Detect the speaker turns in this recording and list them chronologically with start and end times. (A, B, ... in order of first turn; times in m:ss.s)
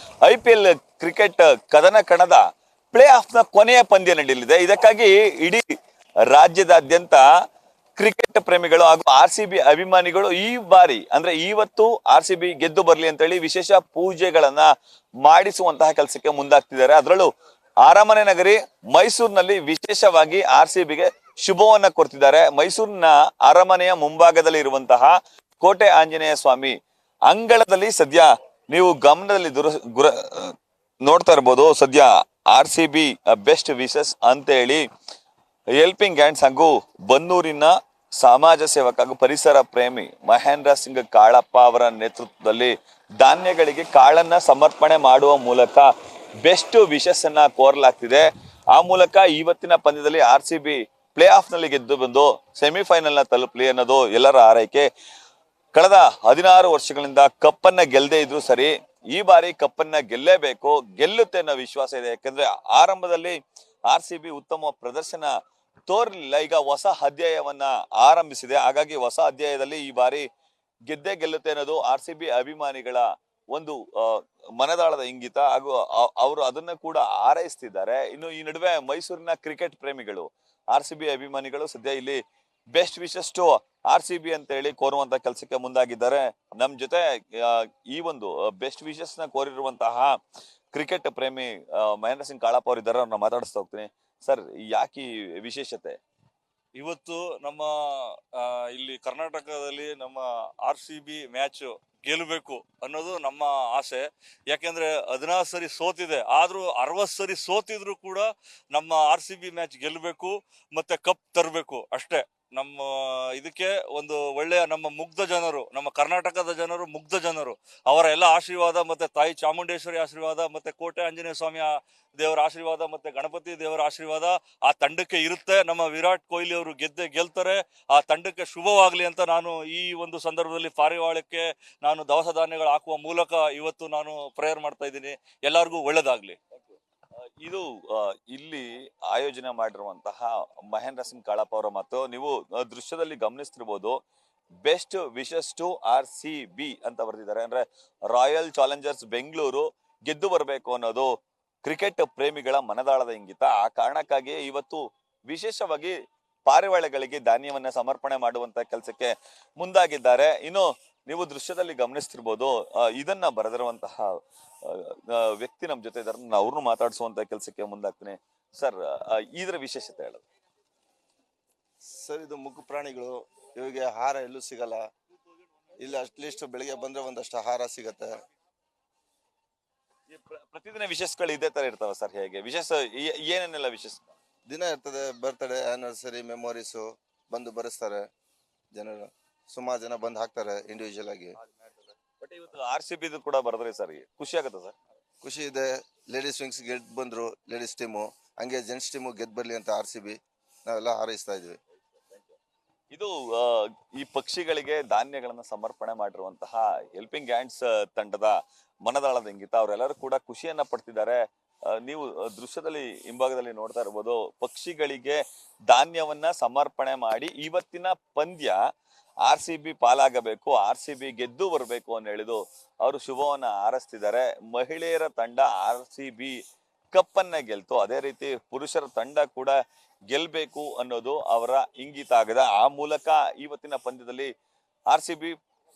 0:00.2-0:05.7 A
0:06.3-0:07.2 A
0:08.0-0:14.7 A
0:15.2-0:17.3 A
0:17.8-0:26.8 A
0:27.3-0:34.8 A
0:35.8-0:45.9 A
0:46.4-0:54.8 A
0:55.7-1:03.4 A
1:03.9-1:05.3 A
1:05.9-1:10.2 A
1:10.9-1:22.2 A
1:22.7-1:30.2 A
1:30.7-1:36.0 A
1:36.8-2:16.4 B
2:17.4-2:24.0 A
2:24.6-2:31.1 A
2:31.6-2:36.0 A
2:36.5-2:50.2 A
2:51.9-2:54.8 C
2:55.8-2:58.1 C
3:00.1-3:04.1 A
3:04.5-3:08.0 C
3:08.7-3:11.3 C
3:11.4-3:14.7 A
3:15.2-3:21.6 C
3:22.0-3:22.4 A
3:22.9-3:31.2 A
3:31.7-3:38.6 A
3:39.2-3:46.4 A
3:46.9-3:49.6 A
3:50.1-3:54.3 A
3:54.9-3:55.4 A